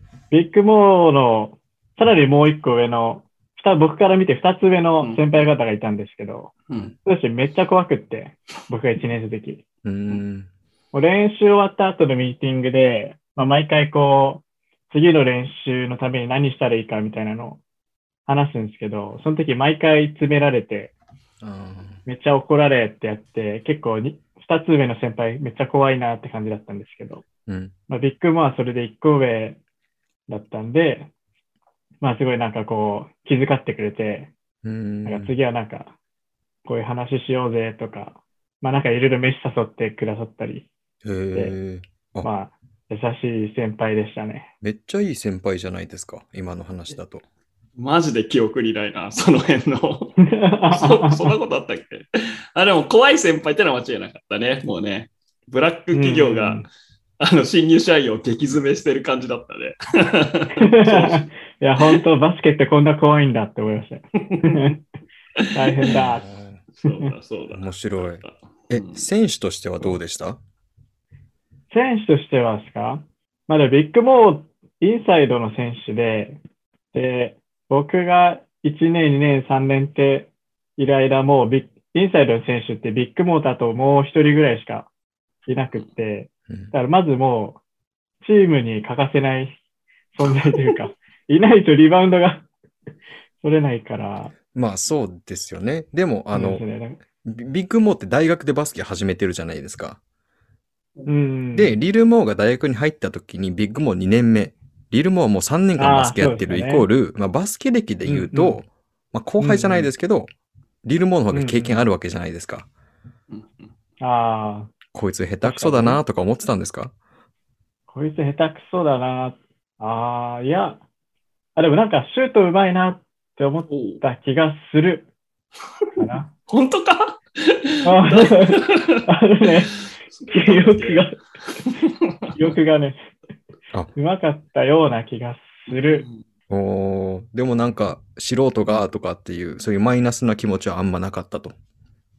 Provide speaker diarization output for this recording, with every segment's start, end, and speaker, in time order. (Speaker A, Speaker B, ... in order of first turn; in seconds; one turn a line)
Speaker A: 0.3-6.5
Speaker A: 7.0-9.6
Speaker B: 9.8-10.5
Speaker A: 10.9-17.6
Speaker A: 18.3-20.9
Speaker B: 21.4-22.0
Speaker A: 22.1-27.2
Speaker B: 27.5-27.7
Speaker A: 27.9-29.6
Speaker A: 30.3-31.1
Speaker A: 32.0-34.3
Speaker B: 34.6-35.3
Speaker A: 35.0-35.9
Speaker A: 36.6-40.7
Speaker B: 41.0-42.3
Speaker A: 42.2-44.5
Speaker B: 44.6-47.2
Speaker C: 47.8-50.2
Speaker A: 50.2-51.3
Speaker C: 50.7-56.7
Speaker A: 55.9-56.7
Speaker C: 57.2-61.3
Speaker A: 60.6-64.8
Speaker C: 64.2-64.8
Speaker C: 65.4-66.0
Speaker A: 65.5-66.3
Speaker B: 66.0-66.6
Speaker C: 66.8-69.1
Speaker A: 66.8-67.1
Speaker B: 67.5-70.4
Speaker A: 71.7-76.4
Speaker A: 76.9-84.9
Speaker A: 85.5-87.6
Speaker A: 88.2-89.6
Speaker A: 90.2-92.5
Speaker A: 93.4-94.3
Speaker B: 94.5-96.7
Speaker A: 96.3-97.0
Speaker B: 97.2-100.0
Speaker A: 101.1-101.8
Speaker B: 101.5-110.3
Speaker A: 105.8-106.9
Speaker A: 108.1-108.6
Speaker A: 109.4-109.9
Speaker B: 110.8-112.7
Speaker A: 111.3-111.8
Speaker C: 113.3-113.7
Speaker A: 114.0-114.7
Speaker B: 114.9-116.9
Speaker A: 115.4-116.0
Speaker A: 117.9-120.8
Speaker A: 121.6-125.1
Speaker C: 123.7-124.0
Speaker A: 126.0-126.3
Speaker C: 126.5-132.5
Speaker A: 127.8-129.7
Speaker A: 130.3-131.2
Speaker A: 132.3-133.0
Speaker A: 134.0-136.1
Speaker C: 135.7-136.2
Speaker B: 136.5-141.5